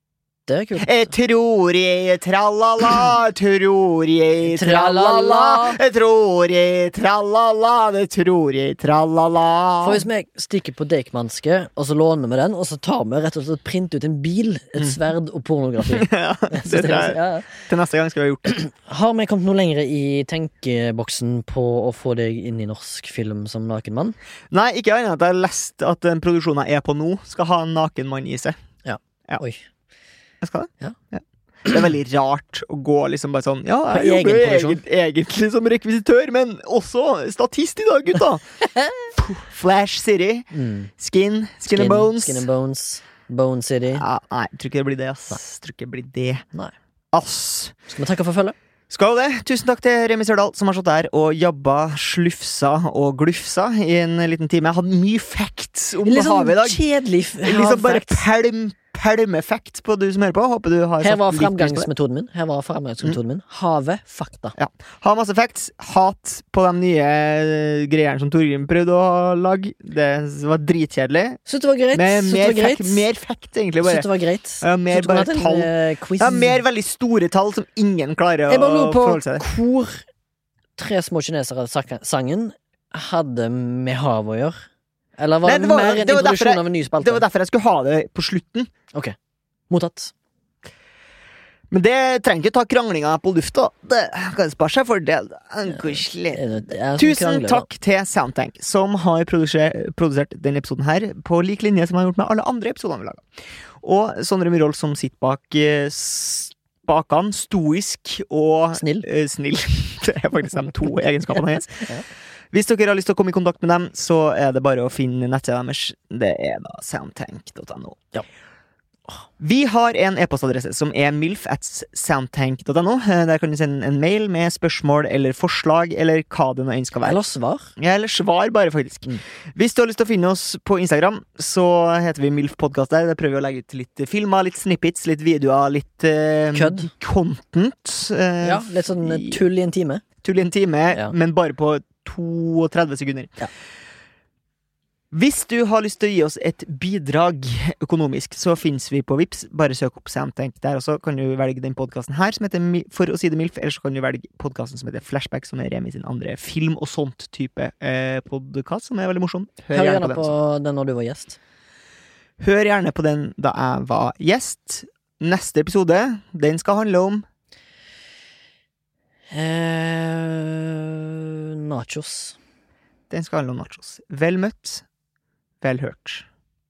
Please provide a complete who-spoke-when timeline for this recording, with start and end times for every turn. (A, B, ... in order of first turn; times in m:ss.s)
0:00.5-0:01.1 A
0:00.8-0:10.0 B
0:04.4-0:05.8 A
0:09.8-0:17.6 A
0:15.8-0:18.6 B
0:18.5-0:24.2 A
0:24.5-0:28.6 B
0:28.8-0:29.7 A
0:30.4-0:38.4 B
0:33.9-0:34.8 A
0:38.7-0:39.1 A
0:39.2-0:42.5 B
0:40.5-0:40.9 A
0:41.7-0:44.1 A
0:44.0-0:46.4 B
0:47.1-0:47.8 B
0:47.9-0:48.6 A
0:48.9-0:56.8 B
0:56.0-0:58.2 A
0:57.4-1:01.9 B
1:01.0-1:04.6 A
1:04.6-1:11.4 B
1:11.5-1:13.0 A
1:11.9-1:14.1 B
1:13.8-1:16.6 A
1:14.6-1:19.4 B
1:18.5-1:20.0 A
1:20.8-1:24.6 A
1:25.2-1:27.2 A
1:25.4-1:28.7 B
1:29.7-1:30.1 A
1:31.7-1:36.4 B
1:35.7-1:37.7 A
1:37.0-1:43.2 B
1:43.8-1:51.8 B
1:48.8-1:49.1 A
1:52.5-1:58.0 B
1:59.4-2:07.2 B
2:07.0-2:07.7 A
2:07.8-2:19.4 B
2:16.5-2:16.9 A
2:18.4-2:20.0 A
2:20.2-2:23.3 B
2:25.1-2:40.3 B
2:39.7-2:41.4 A
2:42.4-2:47.2 B
2:49.3-2:52.4 A
2:53.1-2:54.8 B
2:55.6-2:56.3 B